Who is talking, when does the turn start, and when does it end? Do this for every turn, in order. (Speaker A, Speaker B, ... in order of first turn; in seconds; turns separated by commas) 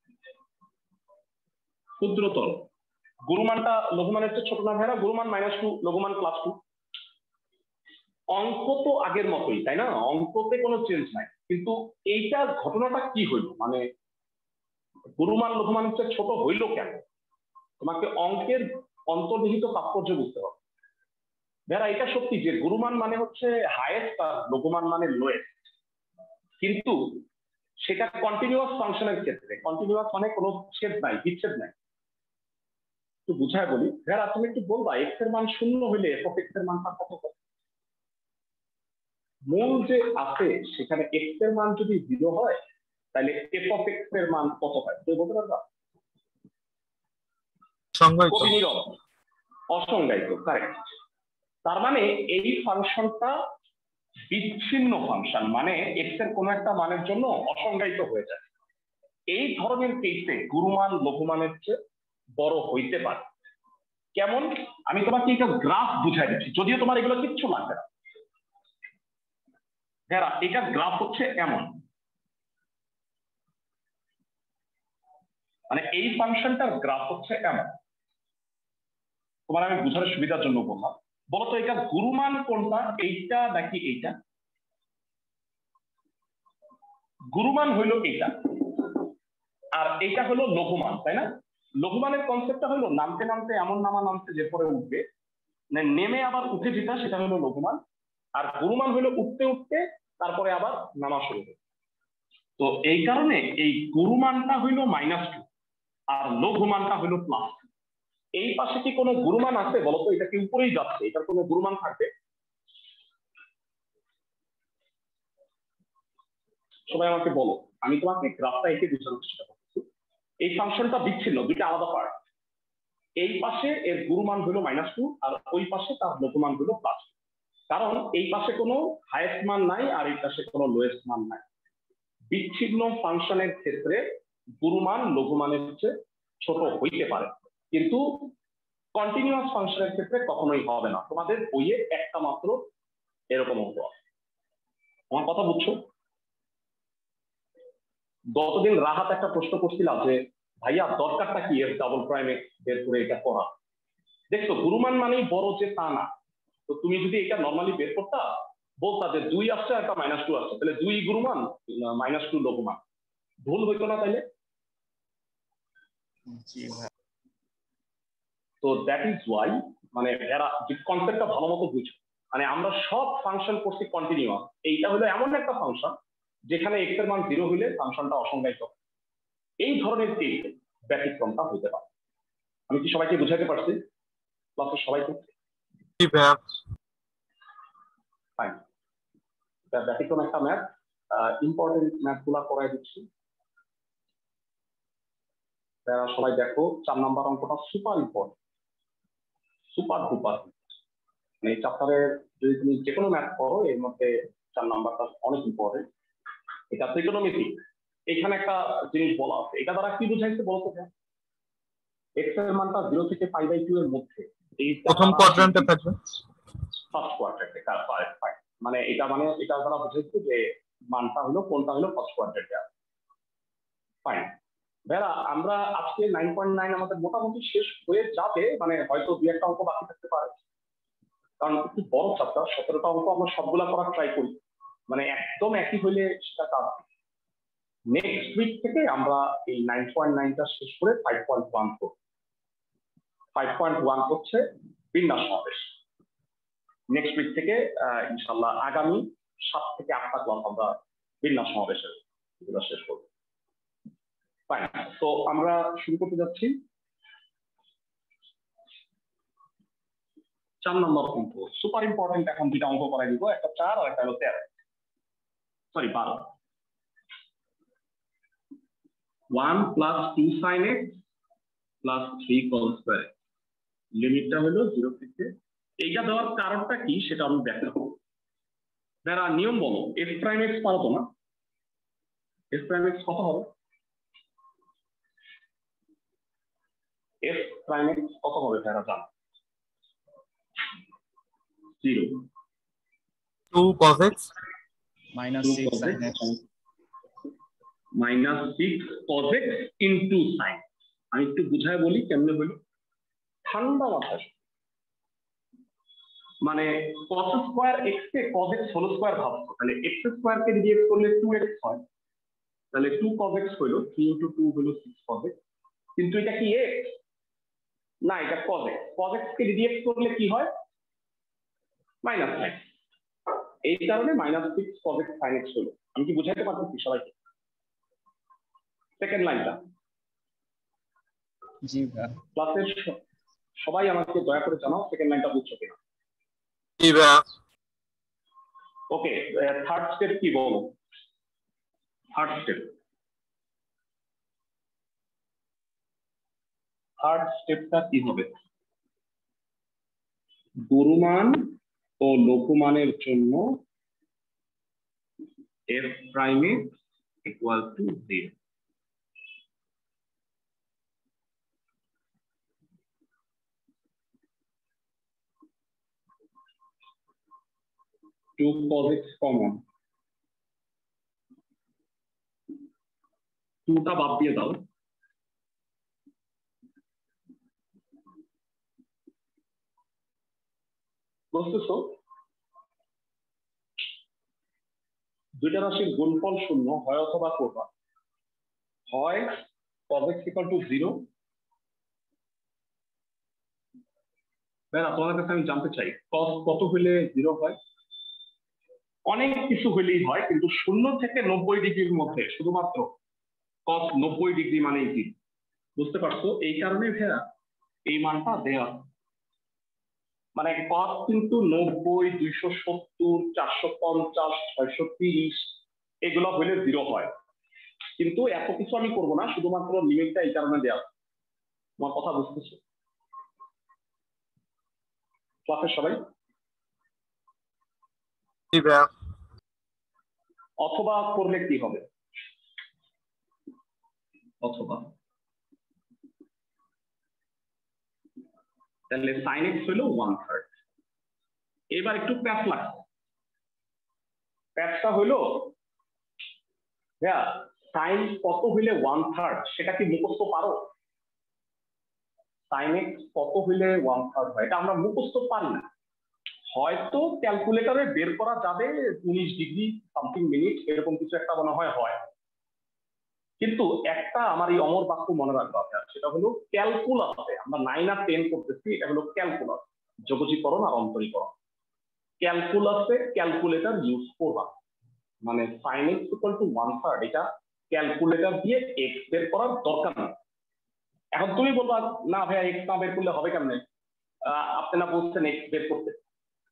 Speaker A: 2.0-2.7, Speaker A: 3.2-6.6, Speaker A: 8.3-13.8, Speaker A: 15.2-17.0, Speaker A: 17.8-20.6, Speaker A: 21.7-25.6, Speaker A: 26.6-27.2, Speaker A: 27.8-31.7, Speaker A: 33.3-37.4, Speaker A: 39.5-42.6, Speaker A: 43.1-45.6, Speaker B: 47.9-48.6, Speaker A: 48.3-48.9, Speaker A: 49.7-50.9, Speaker A: 51.6-53.4, Speaker A: 54.3-58.4, Speaker A: 59.3-61.8, Speaker A: 62.4-63.3, Speaker A: 64.2-67.9, Speaker A: 70.1-71.8, Speaker A: 75.7-77.7, Speaker A: 79.5-84.2, Speaker A: 87.3-89.0, Speaker A: 89.8-91.3, Speaker A: 91.8-95.0, Speaker A: 95.7-97.8, Speaker A: 98.3-101.5, Speaker A: 102.6-105.5, Speaker A: 106.1-107.6, Speaker A: 108.4-112.1, Speaker A: 116.9-119.8, Speaker A: 120.4-122.2, Speaker A: 123.2-127.1, Speaker A: 127.7-131.4, Speaker A: 132.3-134.0, Speaker A: 134.6-138.3, Speaker A: 138.9-142.7, Speaker A: 143.3-143.9, Speaker A: 145.1-145.8, Speaker A: 148.3-153.5, Speaker A: 154.3-156.1, Speaker A: 156.7-158.3, Speaker A: 158.8-162.8, Speaker A: 163.4-164.2, Speaker C: 166.4-166.9, Speaker A: 168.6-175.9, Speaker A: 176.5-178.7, Speaker A: 179.6-181.8, Speaker A: 182.7-183.8, Speaker A: 184.6-185.3, Speaker B: 186.0-186.4, Speaker A: 189.7-193.1, Speaker A: 195.9-198.3, Speaker A: 199.7-200.6, Speaker A: 201.4-205.9, Speaker A: 206.7-210.9, Speaker A: 212.2-215.7, Speaker B: 214.8-216.0, Speaker A: 216.9-222.7, Speaker A: 224.0-224.3, Speaker A: 224.9-230.4, Speaker A: 231.4-234.4, Speaker A: 234.9-236.8, Speaker A: 237.9-241.9, Speaker A: 243.3-245.7, Speaker A: 246.9-253.1, Speaker A: 254.5-256.6, Speaker A: 260.6-264.5, Speaker A: 265.7-266.3, Speaker A: 269.3-271.0, Speaker A: 271.8-273.1, Speaker A: 273.9-278.0, Speaker A: 279.0-281.1, Speaker A: 282.5-283.5, Speaker A: 287.2-289.1, Speaker A: 291.8-292.2, Speaker B: 293.5-294.3, Speaker C: 295.1-296.3, Speaker A: 295.4-296.4, Speaker A: 297.9-302.6, Speaker A: 303.4-304.3, Speaker A: 306.4-311.8, Speaker A: 312.7-315.3, Speaker A: 316.0-316.9, Speaker A: 318.0-320.5, Speaker A: 322.0-322.6, Speaker A: 323.6-327.1, Speaker A: 329.0-329.6, Speaker C: 331.6-332.2, Speaker A: 332.4-333.0, Speaker A: 333.6-335.8, Speaker B: 336.8-337.2, Speaker A: 338.9-340.8, Speaker A: 342.1-342.7, Speaker A: 347.0-348.3, Speaker A: 350.6-353.6, Speaker A: 355.7-358.3, Speaker A: 368.4-369.6, Speaker A: 373.7-374.6, Speaker A: 381.3-381.9, Speaker A: 385.4-387.7, Speaker A: 388.9-391.1, Speaker A: 394.7-397.6, Speaker A: 399.1-402.9, Speaker A: 403.7-405.1, Speaker A: 405.8-407.3, Speaker A: 407.9-408.9, Speaker A: 410.4-417.1, Speaker A: 418.0-420.9, Speaker A: 421.8-422.6, Speaker A: 425.4-426.0, Speaker B: 428.5-428.9, Speaker A: 430.6-431.9, Speaker A: 434.4-434.9, Speaker A: 438.9-440.5, Speaker A: 441.7-442.8, Speaker A: 444.6-445.5, Speaker A: 447.0-450.6, Speaker A: 452.5-455.6, Speaker A: 456.5-462.0, Speaker A: 463.4-471.3, Speaker A: 472.2-474.5, Speaker A: 475.2-480.1, Speaker A: 481.1-483.6, Speaker A: 484.2-486.0